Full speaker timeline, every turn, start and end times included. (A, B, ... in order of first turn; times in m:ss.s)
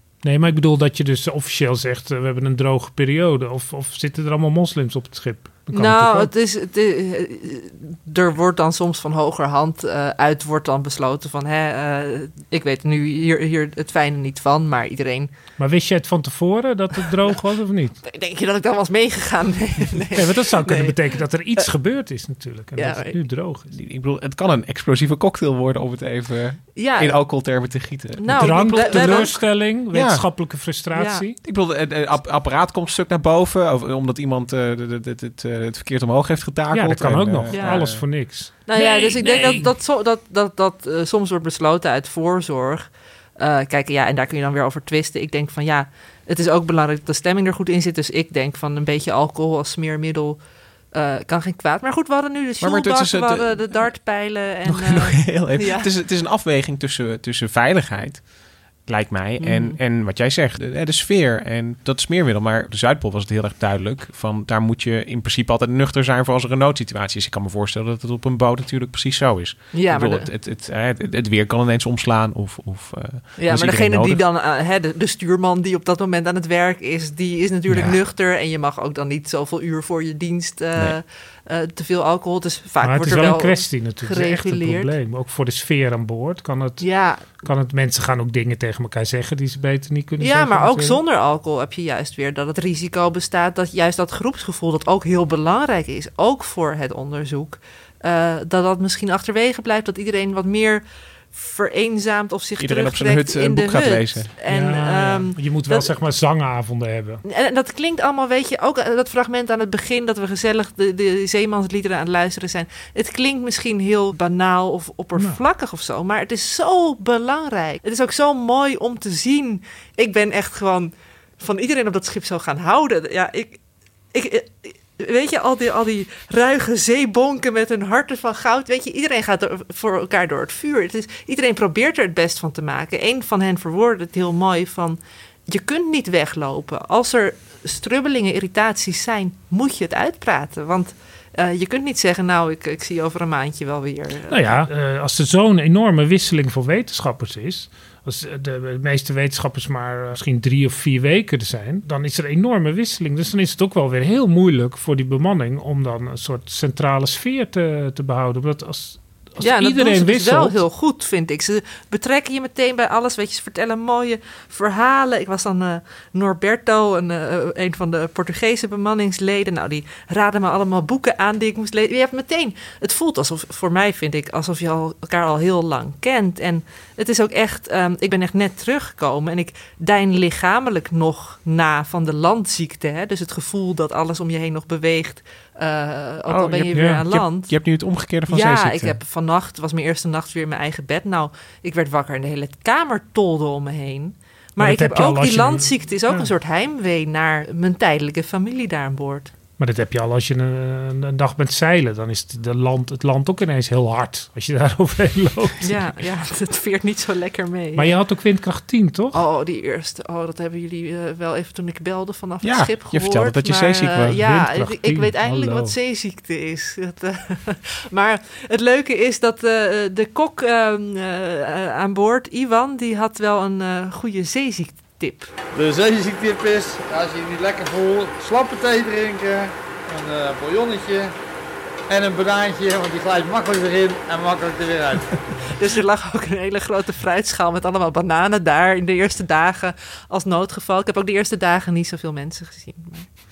0:00.2-0:06.3 A
0:05.7-0:15.3 B
0:15.6-0:18.0 A
0:18.0-0:21.2 B
0:20.2-0:23.7 A
0:22.8-0:23.2 B
0:23.7-0:29.3 C
0:26.8-0:27.5 B
0:28.2-0:29.4 B
0:28.4-0:31.4 A
0:29.9-0:30.3 C
0:30.9-0:31.3 B
0:31.4-0:38.1 C
0:36.7-0:39.7 A
0:37.5-0:38.0 B
0:38.7-0:50.4 B
0:50.9-0:55.9 B
0:52.6-0:53.6 C
0:54.7-0:58.2 C
0:58.9-1:14.2 C
0:59.4-0:59.8 B
1:09.7-1:10.3 B
1:13.4-1:24.9 B
1:22.8-1:26.9 A
1:26.8-1:27.2 B
1:27.4-1:31.0 A
1:30.2-1:45.9 B
1:42.6-1:44.3 C
1:44.5-1:47.2 A
1:47.2-2:03.6 B
2:04.1-2:24.7 B
2:24.3-2:40.6 A
2:39.4-3:07.6 B
3:06.3-3:09.0 C
3:06.7-3:07.0 A
3:08.3-3:19.3 B
3:14.6-3:16.3 A
3:19.6-3:25.7 A
3:25.6-3:28.0 B
3:27.8-3:29.2 A
3:29.1-3:45.3 B
3:32.4-3:34.2 C
3:34.2-3:35.7 A
3:45.5-3:51.1 D
3:51.9-3:55.3 D
3:55.5-4:03.2 B